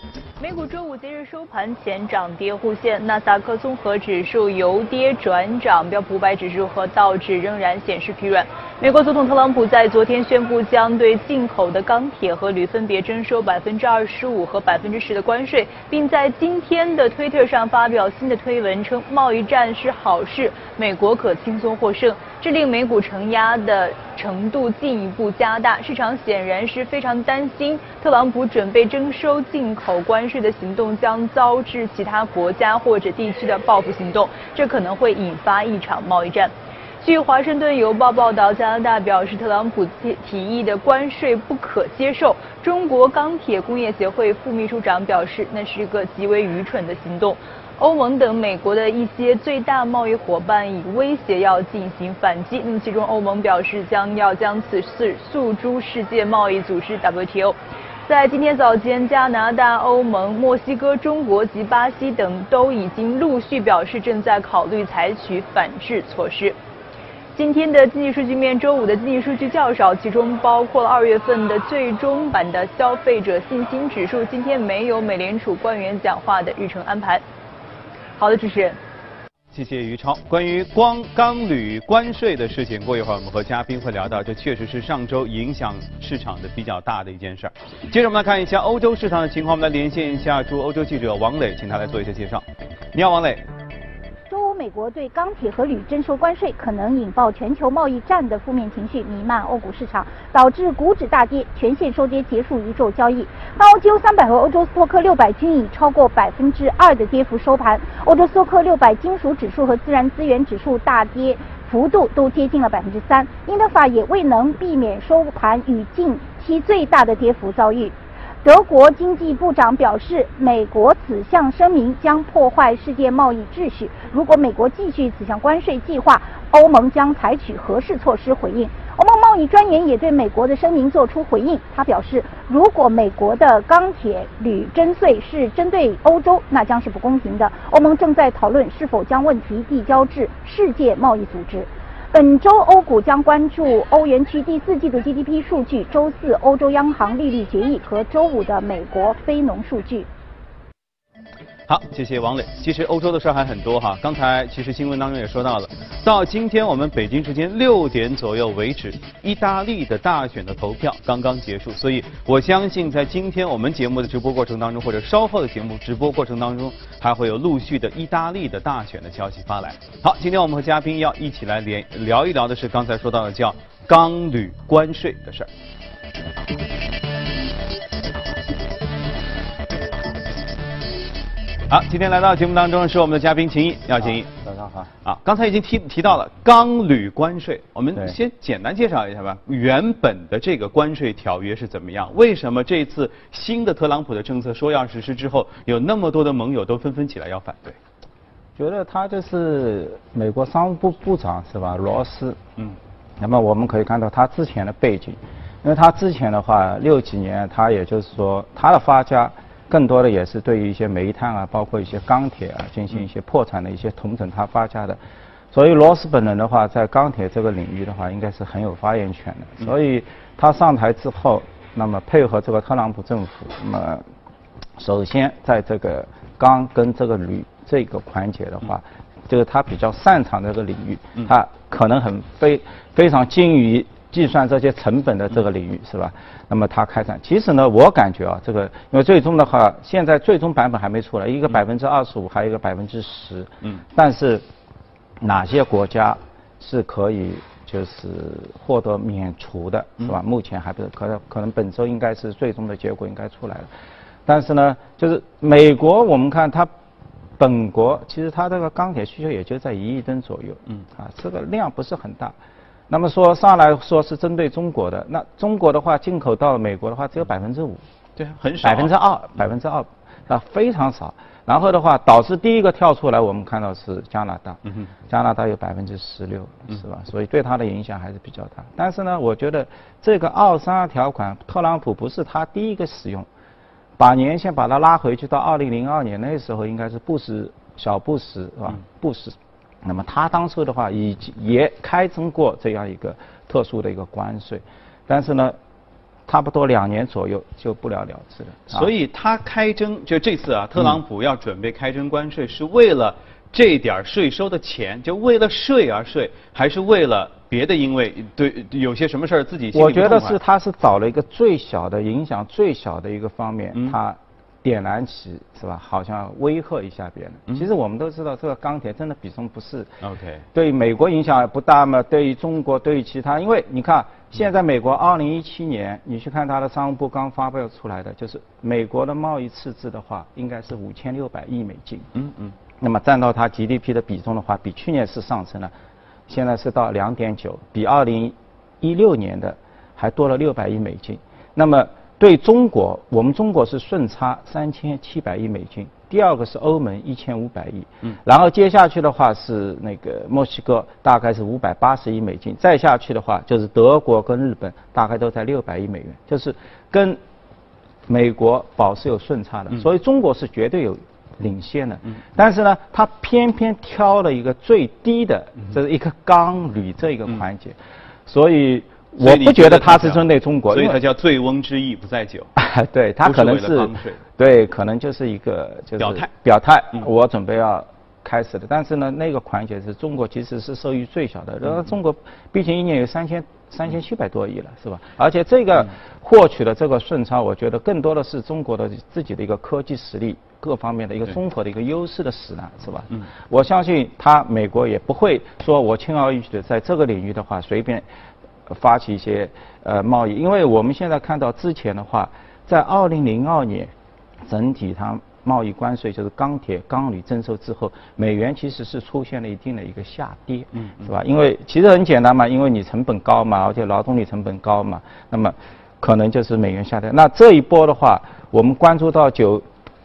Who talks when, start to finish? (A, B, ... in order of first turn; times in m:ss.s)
0:00.4-1:06.6 A
1:07.3-1:17.2 A
1:18.2-1:18.8 A
1:19.5-1:33.5 B
1:34.3-2:30.1 C
2:31.7-2:55.5 B
3:01.7-3:04.3 B
3:04.4-3:04.9 D
3:05.0-3:17.8 B
3:18.6-3:22.4 D
3:23.2-3:35.0 D
3:35.5-3:44.0 D
3:44.8-4:04.4 D
4:05.2-4:13.7 D
4:14.3-4:16.7 D
4:17.4-4:22.4 D
4:22.9-4:27.8 D
4:28.2-4:28.9 B
4:28.6-4:43.3 D
4:44.0-4:55.6 D
4:56.3-4:58.9 D
4:58.7-5:10.4 B
5:09.7-5:19.9 D
5:20.0-5:20.4 B
5:20.5-5:32.1 D
5:32.1-5:32.5 B
5:32.8-5:35.7 D
5:36.3-5:57.2 D
5:58.1-6:11.0 D
6:09.2-6:12.5 B
6:12.6-6:38.0 D
6:13.2-6:14.2 B
6:16.0-6:16.3 B
6:38.7-6:43.9 D
6:44.5-6:59.6 D